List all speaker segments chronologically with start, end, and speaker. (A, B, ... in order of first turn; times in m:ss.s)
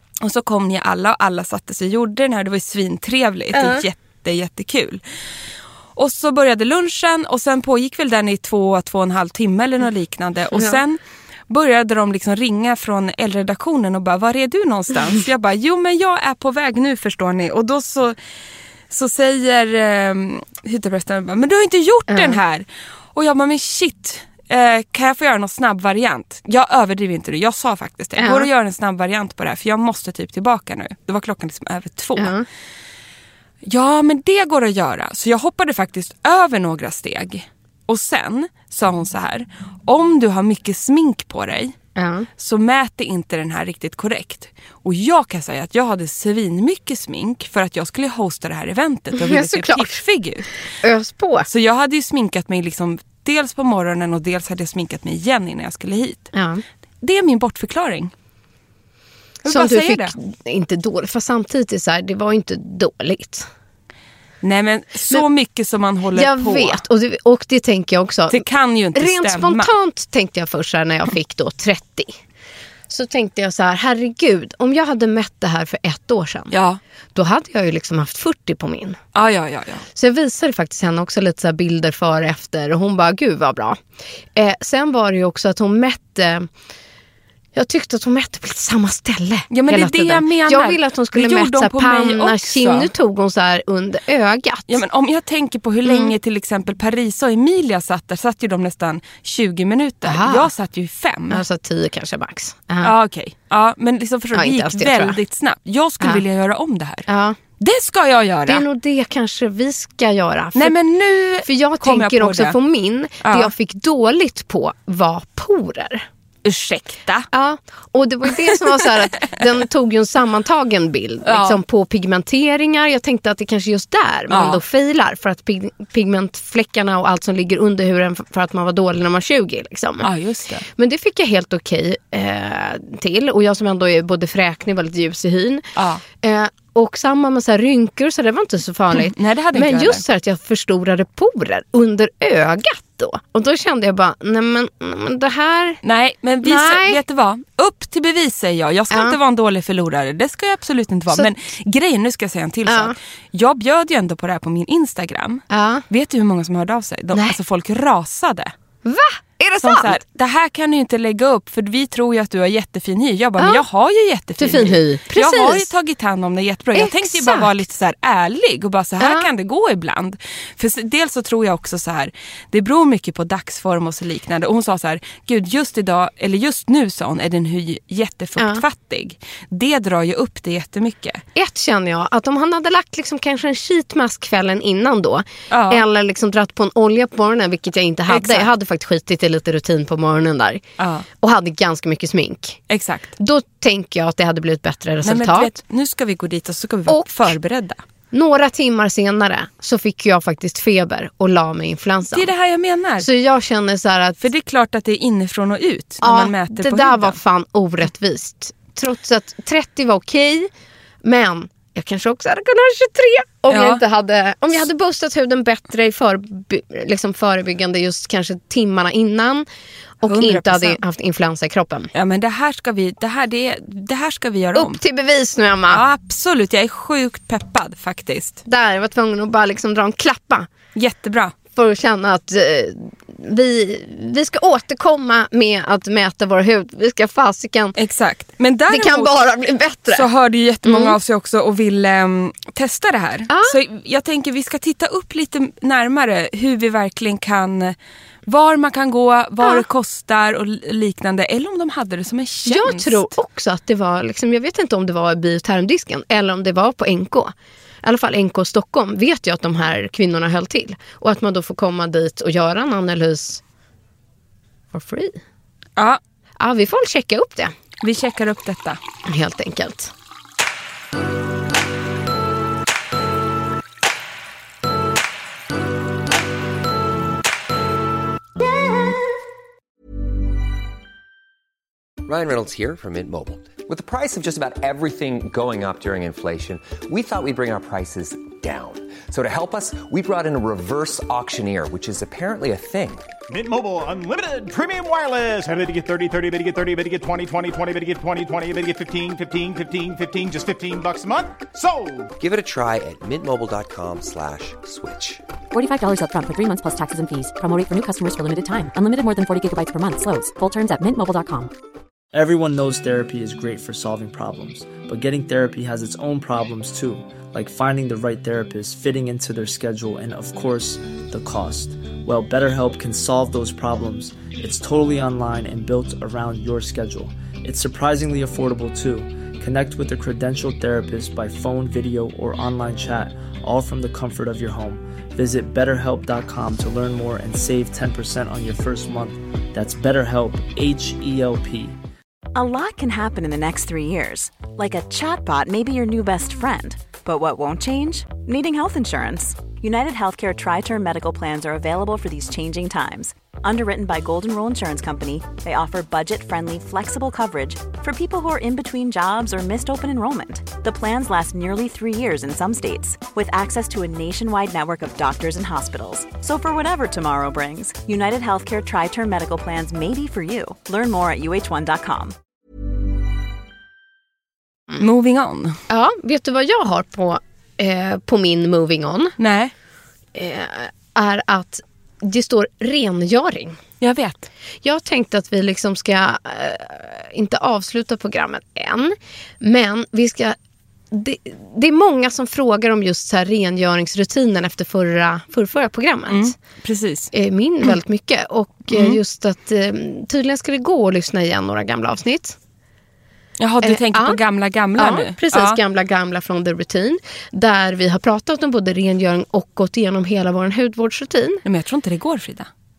0:00.2-0:05.0 A
0:03.5-0:03.8 B
0:06.0-0:18.2 A
0:18.9-0:32.3 A
0:22.1-0:22.4 B
0:28.2-0:28.5 B
0:32.2-0:32.4 B
0:33.6-0:41.8 A
0:42.0-0:42.3 B
0:42.4-0:50.5 A
0:49.1-0:50.0 B
0:50.8-0:51.5 B
0:51.5-0:56.3 A
0:56.3-0:56.6 B
0:57.0-0:58.1 A
0:59.4-1:00.1 A
0:59.5-1:03.5 B
1:04.4-1:06.8 A
1:06.1-1:12.2 B
1:08.3-1:09.7 A
1:12.9-1:16.5 B
1:16.5-1:16.8 A
1:17.1-1:19.0 B
1:19.1-1:19.8 A
1:19.9-1:23.8 B
1:24.3-1:26.5 B
1:27.5-1:34.8 B
1:29.5-1:32.9 A
1:34.7-1:41.4 A
1:35.8-1:36.1 B
1:40.0-1:40.5 B
1:41.3-1:42.9 B
1:42.8-1:47.0 A
1:44.3-1:45.2 B
1:47.1-1:47.4 B
1:47.6-1:48.6 A
1:48.5-1:50.8 B
1:50.6-1:52.6 A
1:51.4-1:56.0 B
1:53.2-1:53.5 A
1:56.4-1:57.3 A
1:57.3-2:10.1 B
2:01.2-2:01.6 A
2:04.3-2:04.6 A
2:10.0-2:10.7 A
2:10.8-2:15.7 B
2:15.8-2:16.0 A
2:16.2-2:25.8 B
2:18.9-2:20.0 A
2:25.8-2:38.5 A
2:26.4-2:27.0 B
2:32.6-2:32.9 B
2:35.5-2:35.8 B
2:37.1-2:37.4 B
2:38.8-2:40.0 B
2:39.6-3:01.2 A
2:43.4-2:43.6 B
2:44.4-2:45.7 B
2:46.7-2:47.5 B
2:49.0-2:49.3 B
3:01.4-3:10.6 B
3:05.5-3:05.8 A
3:08.1-3:08.5 A
3:10.8-3:11.0 A
3:11.2-3:12.6 B
3:12.7-3:13.1 A
3:13.2-3:15.5 B
3:15.0-3:17.8 A
3:16.9-3:17.3 B
3:18.1-3:22.3 B
3:22.1-3:23.1 A
3:23.0-3:24.2 B
3:24.2-3:27.2 A
3:26.0-3:30.5 B
3:31.0-3:39.4 B
3:33.5-3:33.8 A
3:40.0-3:41.9 B
3:40.0-3:40.8 A
3:41.9-3:44.8 A
3:44.5-3:45.8 B
3:45.7-3:48.4 A
3:48.4-3:50.5 B
3:50.7-3:51.3 A
3:51.5-3:57.8 B
3:57.8-3:59.3 A
3:58.7-4:00.0 B
3:59.9-4:13.1 A
4:00.6-4:01.0 B
4:03.3-4:03.6 B
4:12.4-4:23.4 B
4:24.7-4:25.2 B
4:26.4-4:27.5 B
4:27.8-4:28.8 A
4:29.0-4:29.9 B
4:42.0-4:53.0 C
4:53.3-5:02.1 D
5:02.2-5:05.2 C
5:05.5-5:11.5 E
5:12.1-5:41.8 F
5:42.3-6:12.1 G
6:14.8-6:15.6 A
6:15.7-6:19.2 B
6:19.2-6:19.5 A
6:20.1-6:23.6 B
6:23.8-6:24.3 A
6:24.6-6:30.4 B
6:30.9-6:36.3 B
6:36.1-6:37.1 A
6:37.1-6:42.4 B
6:38.7-6:39.0 A
6:43.4-6:45.6 A
6:43.6-6:44.2 B
6:44.8-6:51.4 B
6:51.4-6:52.5 A